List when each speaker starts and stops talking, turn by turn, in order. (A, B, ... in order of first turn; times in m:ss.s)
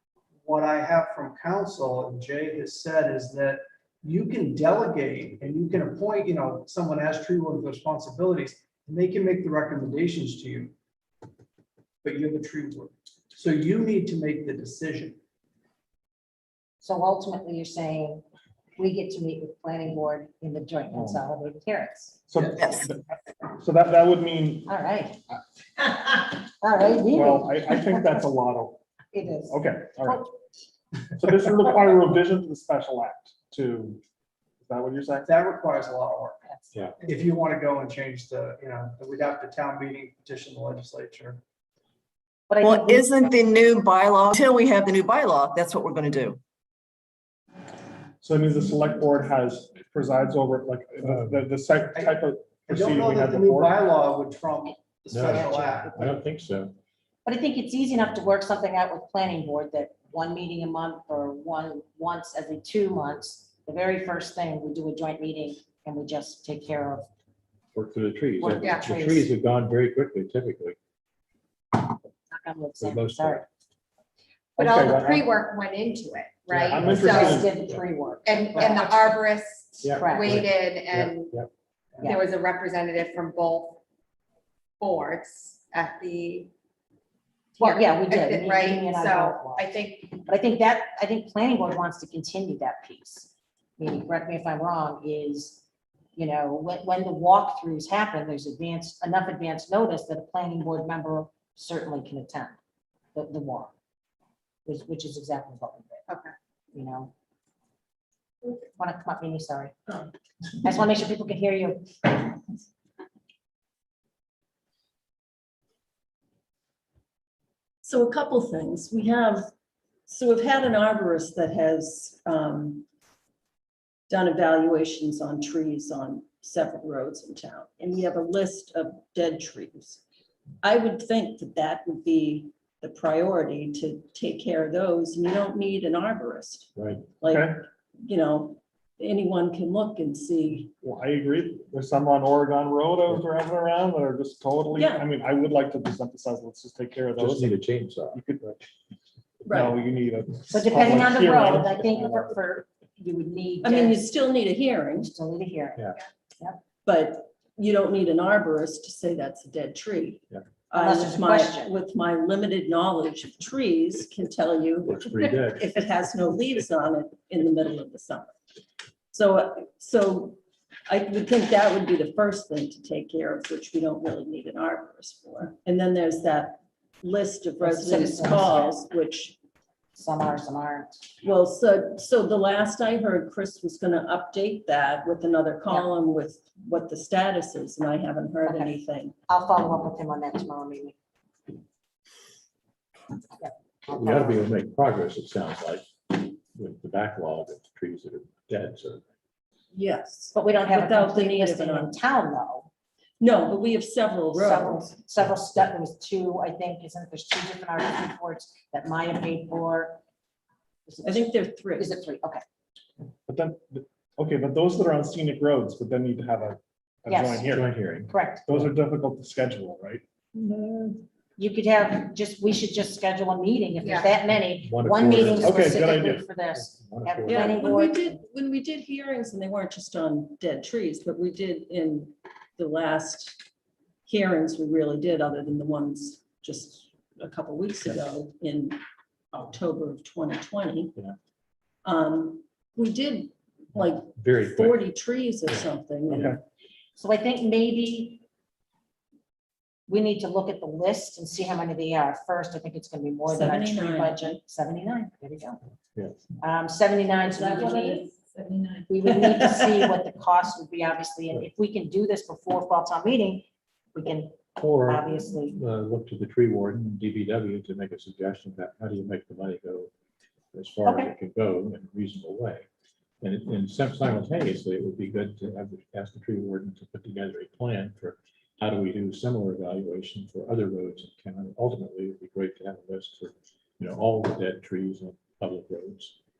0:00.4-0:10.7 A
0:12.0-0:15.2 A
0:16.8-0:18.2 B
0:18.8-0:22.2 B
0:20.9-0:21.2 C
0:22.3-0:24.7 C
0:24.7-0:25.2 B
0:25.8-0:28.2 B
0:27.1-0:28.8 C
0:29.1-0:30.2 B
0:29.5-0:30.3 C
0:31.2-0:34.0 C
0:34.6-0:35.3 C
0:35.2-0:36.4 A
0:37.0-0:41.4 A
0:42.5-0:43.2 B
0:42.6-0:46.4 D
0:48.2-0:53.8 C
0:51.0-0:51.4 E
0:51.9-0:56.0 A
0:55.1-0:56.7 E
0:55.2-0:56.1 B
0:57.2-1:07.1 B
1:07.7-1:10.8 E
1:08.4-1:09.3 B
1:08.6-1:08.9 F
1:12.3-1:13.4 B
1:12.8-1:13.5 E
1:14.6-1:17.3 F
1:14.6-1:15.3 C
1:16.5-1:17.5 C
1:16.8-1:17.8 E
1:17.0-1:19.2 B
1:18.2-1:21.3 F
1:19.8-1:21.5 E
1:20.0-1:20.4 B
1:22.1-1:23.8 F
1:24.8-1:26.5 F
1:27.6-1:30.2 F
1:27.6-1:29.7 B
1:30.2-1:35.6 B
1:36.2-1:42.6 B
1:43.1-1:43.7 B
1:44.6-1:46.0 B
1:46.7-1:47.1 B
1:48.8-1:50.0 B
1:50.6-1:52.3 B
1:57.8-1:59.5 G
2:00.1-2:02.8 G
2:04.1-2:10.0 G
2:10.6-2:20.7 G
2:16.8-2:17.1 E
2:17.2-2:17.6 C
2:20.8-2:27.6 C
2:24.7-2:25.1 G
2:27.2-2:28.2 E
2:28.1-2:28.7 C
2:29.4-2:32.2 C
2:29.4-2:29.8 G
2:30.5-2:34.0 B
2:33.6-2:35.1 G
2:34.9-2:36.6 B
2:35.8-2:36.0 E
2:36.8-2:48.4 G
2:40.7-2:41.7 B
2:44.8-2:45.7 E
2:49.1-2:59.4 G
2:57.6-2:58.7 B
2:59.9-3:01.0 B
3:01.2-3:09.1 G
3:08.4-3:08.8 B
3:09.3-3:10.9 B
3:13.4-3:14.5 B
3:13.9-3:19.0 E
3:19.7-3:21.9 G
3:20.3-3:22.7 B
3:23.2-3:24.9 G
3:24.3-3:30.0 B
3:30.9-3:32.4 B
3:31.0-3:32.0 G
3:33.3-3:37.7 C
3:37.1-3:37.5 B
3:37.4-3:38.7 E
3:38.1-3:38.5 B
3:38.5-3:40.0 C
3:40.3-3:48.2 B
3:43.8-3:44.1 F
3:44.6-3:47.7 E
3:45.4-3:46.2 C
3:47.2-3:53.4 G
3:54.0-3:58.8 G
3:59.3-4:00.9 G
4:01.8-4:06.4 G
4:04.1-4:04.8 E
4:05.5-4:06.4 E
4:07.0-4:08.2 B
4:09.9-4:15.6 B
4:13.3-4:14.4 G
4:16.4-4:18.1 B
4:17.3-4:19.8 G
4:18.9-4:25.6 B
4:24.6-4:29.9 E
4:30.5-4:32.6 E
4:30.8-4:31.1 B
4:33.2-4:46.1 E